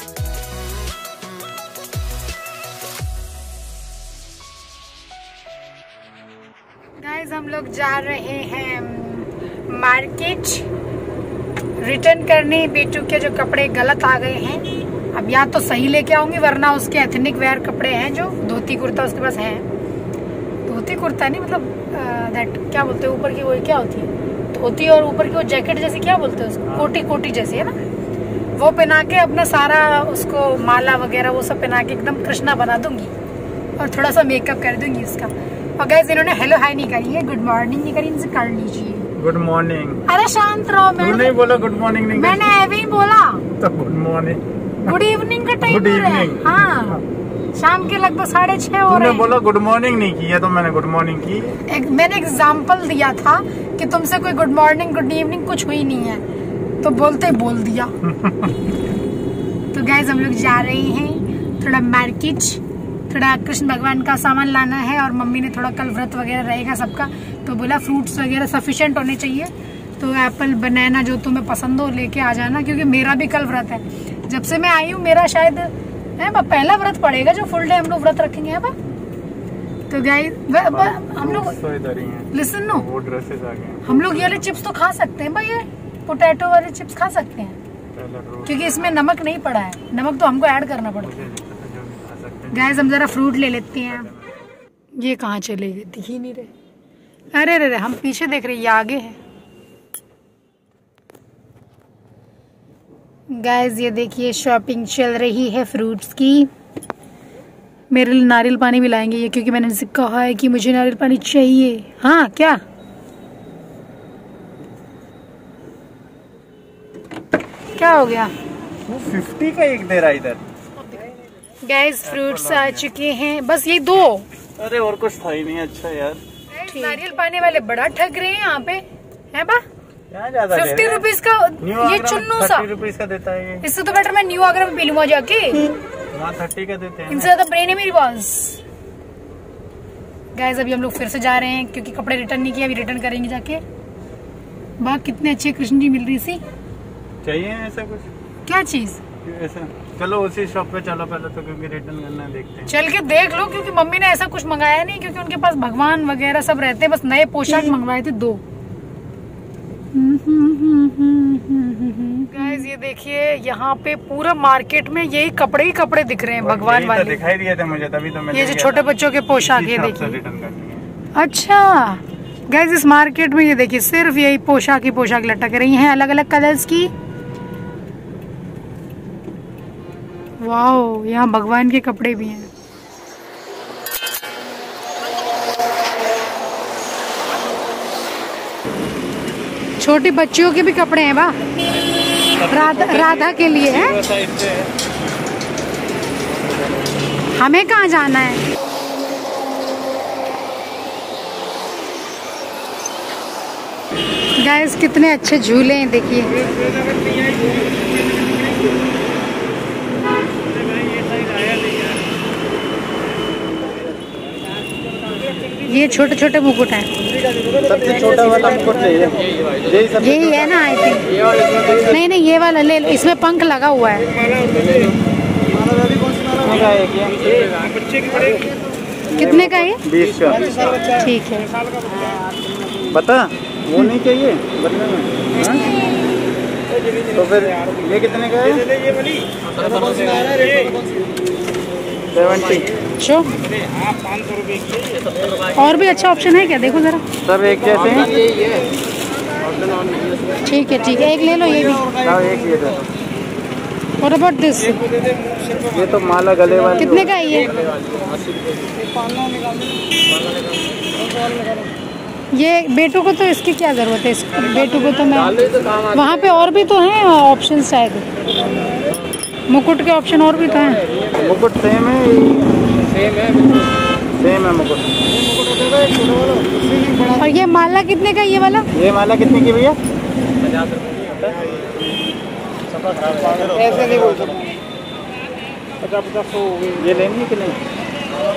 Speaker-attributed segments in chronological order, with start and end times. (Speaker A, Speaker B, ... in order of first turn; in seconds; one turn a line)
Speaker A: 7.0-10.7
Speaker A: 11.8-19.7
Speaker A: 20.7-27.8
Speaker B: 26.7-27.0
Speaker A: 28.6-33.1
Speaker A: 33.8-39.1
Speaker B: 39.2-40.0
Speaker A: 40.1-41.4
Speaker B: 41.0-42.6
Speaker A: 42.1-43.5
Speaker B: 43.6-45.0
Speaker A: 44.8-49.3
Speaker B: 45.6-47.0
Speaker B: 48.9-51.6
Speaker A: 51.7-56.2
Speaker A: 56.8-58.0
Speaker B: 58.2-58.5
Speaker A: 59.7-78.8
Speaker A: 79.9-81.6
Speaker B: 80.7-84.5
Speaker A: 82.3-82.9
Speaker A: 83.8-87.6
Speaker B: 87.9-89.0
Speaker A: 88.5-91.2
Speaker B: 91.0-93.0
Speaker A: 92.5-94.1
Speaker B: 93.9-94.3
Speaker A: 95.0-96.5
Speaker A: 97.3-99.2
Speaker A: 103.3-106.5
Speaker A: 107.9-112.6
Speaker A: 117.7-118.3
Speaker B: 118.8-120.4
Speaker A: 120.8-124.3
Speaker B: 122.0-122.9
Speaker B: 124.6-126.2
Speaker A: 126.5-129.6
Speaker B: 130.1-131.1
Speaker A: 130.5-132.7
Speaker B: 131.6-133.7
Speaker A: 133.6-135.7
Speaker B: 136.1-137.3
Speaker A: 137.1-138.6
Speaker A: 140.3-143.6
Speaker A: 144.8-146.4
Speaker B: 147.2-148.1
Speaker A: 148.5-149.0
Speaker B: 149.2-152.7
Speaker A: 152.7-158.4
Speaker A: 159.9-167.2
Speaker B: 166.4-170.9
Speaker A: 168.3-170.2
Speaker A: 171.1-176.9
Speaker A: 180.4-182.5
Speaker A: 189.8-191.4
Speaker A: 192.4-194.1
Speaker B: 194.1-194.7
Speaker A: 197.3-198.4
Speaker A: 204.4-206.7
Speaker A: 215.6-216.9
Speaker B: 217.5-220.5
Speaker A: 220.0-224.2
Speaker B: 226.2-228.2
Speaker B: 229.1-230.7
Speaker A: 229.2-229.8
Speaker A: 230.8-231.5
Speaker B: 231.9-235.8
Speaker B: 237.1-238.7
Speaker B: 239.6-240.7
Speaker B: 242.1-242.7
Speaker A: 243.0-243.3
Speaker A: 245.5-247.1
Speaker B: 247.2-248.4
Speaker A: 250.4-251.9
Speaker B: 251.9-252.8
Speaker A: 254.0-254.9
Speaker B: 255.5-257.1
Speaker A: 256.8-257.7
Speaker A: 262.3-268.1
Speaker A: 269.5-270.9
Speaker B: 271.1-273.1
Speaker B: 274.1-275.0
Speaker A: 277.0-278.7
Speaker B: 278.7-279.8
Speaker B: 280.8-281.7
Speaker B: 283.1-284.3
Speaker B: 286.7-287.6